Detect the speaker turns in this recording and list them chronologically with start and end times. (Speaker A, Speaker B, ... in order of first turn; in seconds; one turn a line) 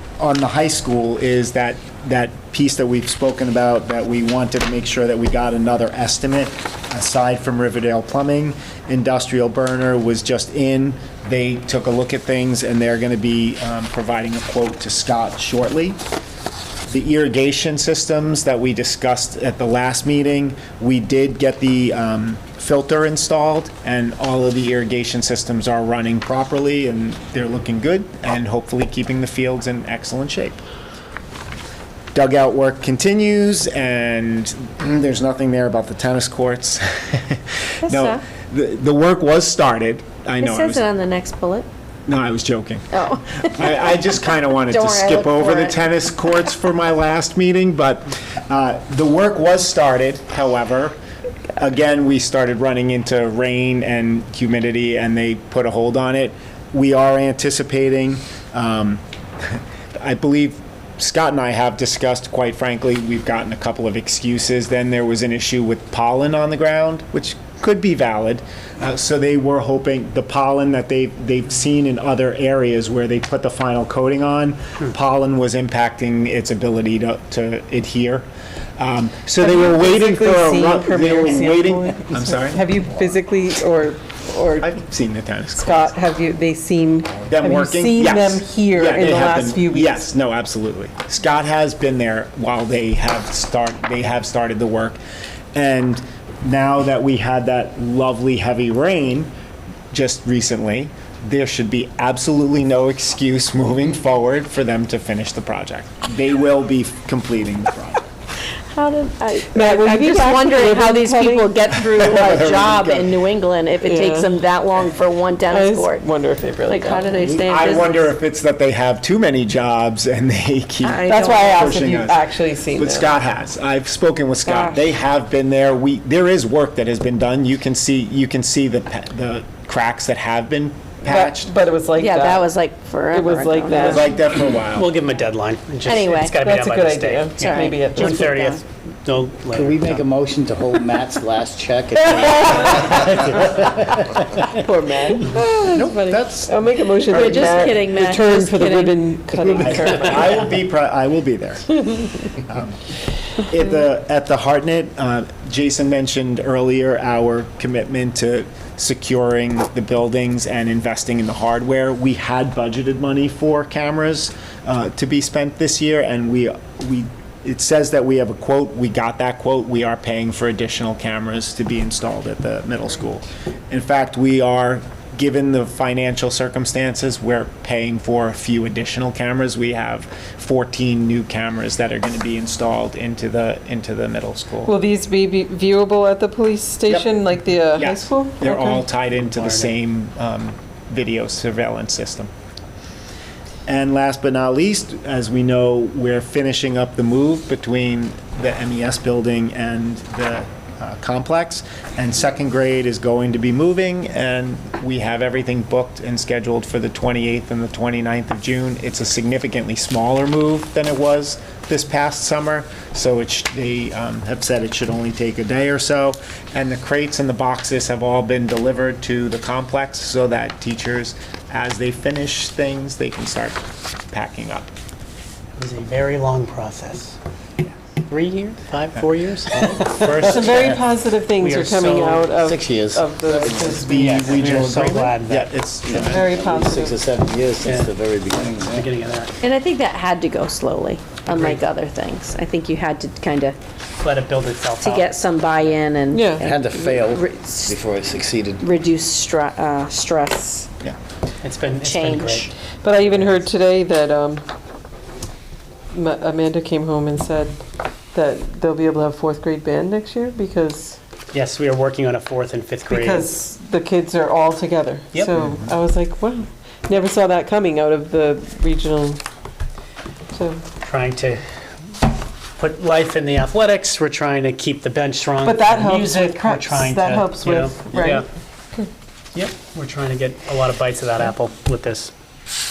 Speaker A: 0.2-16.0
Speaker A: 16.9-30.6
Speaker A: 32.1-40.9
Speaker B: 37.8-38.2
Speaker B: 40.4-41.7
Speaker A: 42.1-51.0
Speaker B: 42.9-44.0
Speaker B: 44.7-45.8
Speaker A: 51.6-78.3
Speaker A: 78.8-82.7
Speaker C: 79.4-84.8
Speaker A: 84.6-85.9
Speaker C: 85.6-90.1
Speaker A: 87.3-95.0
Speaker A: 95.5-99.3
Speaker A: 99.9-108.0
Speaker B: 108.7-116.0
Speaker C: 109.4-111.7
Speaker A: 111.8-113.2
Speaker C: 113.8-114.4
Speaker C: 115.5-117.4
Speaker B: 116.7-118.1
Speaker A: 117.2-131.5
Speaker B: 120.8-121.9
Speaker C: 121.0-123.2
Speaker B: 124.5-124.8
Speaker C: 131.1-132.5
Speaker B: 131.9-134.0
Speaker C: 133.1-134.1
Speaker A: 133.8-134.9
Speaker D: 133.8-140.0
Speaker B: 135.8-136.3
Speaker C: 136.3-138.4
Speaker B: 137.4-138.6
Speaker E: 139.5-144.5
Speaker C: 142.0-143.4
Speaker C: 144.4-150.4
Speaker A: 145.7-147.8
Speaker B: 147.1-149.8
Speaker A: 149.4-151.8
Speaker A: 152.4-152.8
Speaker A: 153.4-184.7
Speaker C: 184.7-188.8
Speaker A: 186.9-187.1
Speaker A: 187.8-192.3
Speaker D: 189.2-189.8
Speaker A: 193.7-224.7
Speaker D: 225.6-227.2
Speaker D: 228.1-232.3
Speaker C: 230.2-234.1
Speaker E: 232.4-234.1
Speaker A: 233.7-236.3
Speaker D: 233.9-235.5
Speaker E: 235.9-239.0
Speaker C: 236.1-237.0
Speaker D: 237.7-237.9
Speaker D: 238.5-239.4
Speaker B: 239.4-243.6
Speaker D: 241.3-241.6
Speaker D: 244.0-245.1
Speaker B: 244.8-247.8
Speaker C: 246.1-246.5
Speaker E: 246.4-248.7
Speaker B: 248.6-250.7
Speaker D: 251.4-253.4
Speaker B: 251.8-252.5
Speaker C: 252.8-254.4
Speaker C: 255.9-257.6
Speaker C: 258.1-261.0
Speaker D: 261.3-263.3
Speaker C: 262.9-269.2
Speaker A: 265.4-265.7
Speaker C: 270.3-270.6
Speaker D: 270.8-271.4
Speaker D: 272.6-278.3
Speaker C: 275.4-278.3
Speaker D: 279.3-282.1